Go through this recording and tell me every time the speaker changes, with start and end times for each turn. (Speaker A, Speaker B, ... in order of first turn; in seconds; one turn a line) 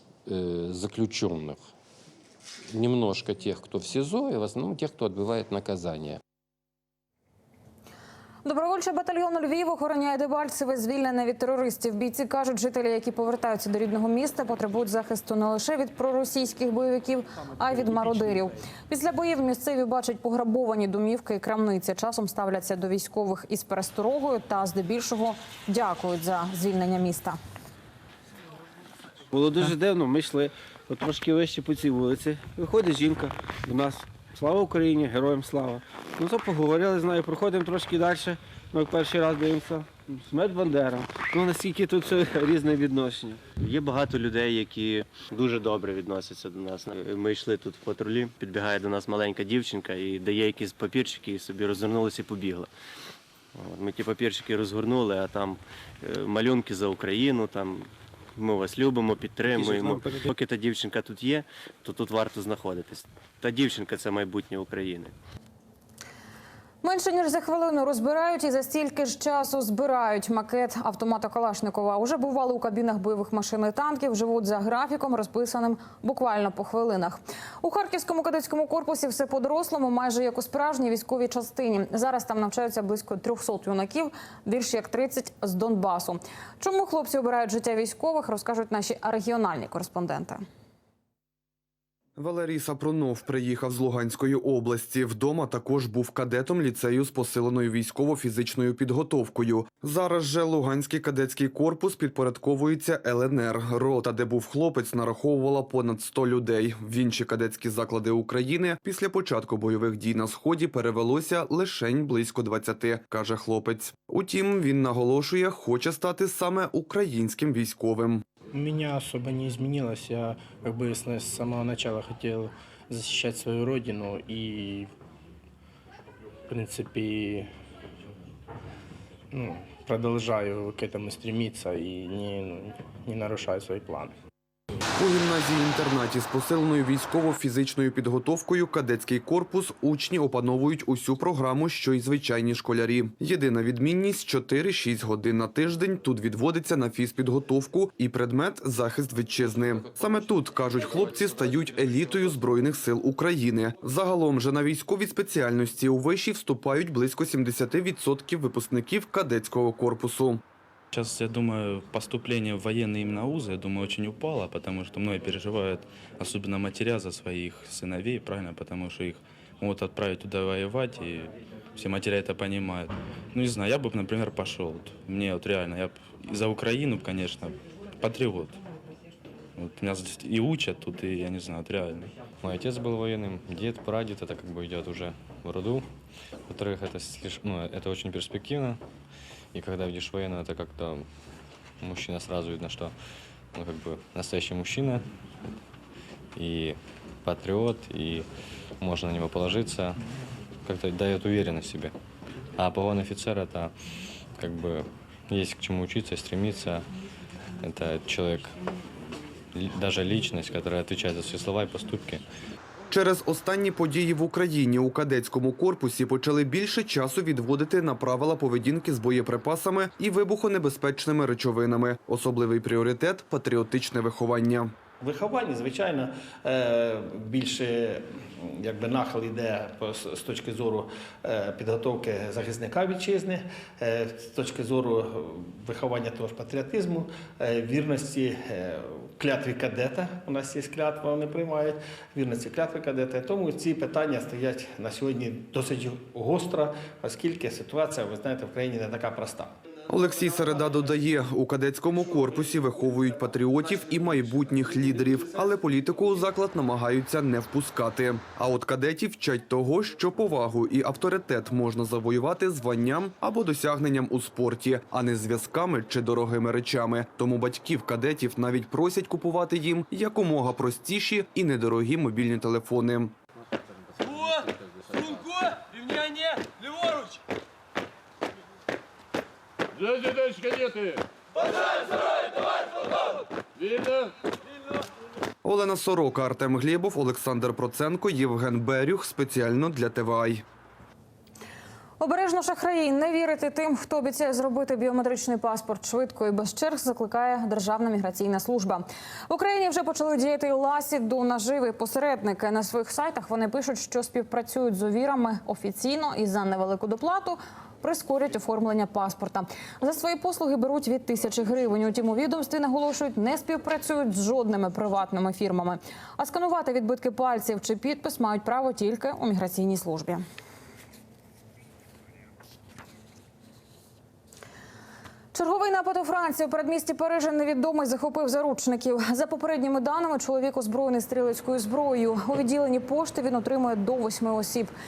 Speaker A: 0.3-1.6
Speaker A: 2.7-6.2
Speaker B: 8.4-27.4
Speaker C: 29.3-43.5
Speaker D: 43.5-52.7
Speaker D: 53.6-65.1
Speaker B: 66.8-90.4
Speaker E: 92.2-118.2
Speaker F: 118.5-124.9
Speaker F: 126.5-127.5
Speaker F: 129.3-134.1
Speaker E: 135.0-160.4
Speaker G: 160.9-178.6
Speaker G: 179.6-182.1
Speaker H: 182.4-185.9
Speaker H: 186.5-188.8
Speaker H: 189.5-191.1
Speaker H: 191.8-192.9
Speaker H: 193.5-195.1
Speaker H: 196.4-198.3
Speaker H: 198.8-200.0
Speaker H: 200.7-201.9
Speaker H: 202.6-203.7
Speaker H: 204.4-206.9
Speaker H: 207.6-208.6
Speaker H: 209.5-212.2
Speaker E: 212.9-224.7
Speaker I: 225.0-249.5
Speaker E: 249.9-273.1
Speaker E: 285.4-290.4
Speaker B: 292.0-320.2
Speaker B: 325.3-334.7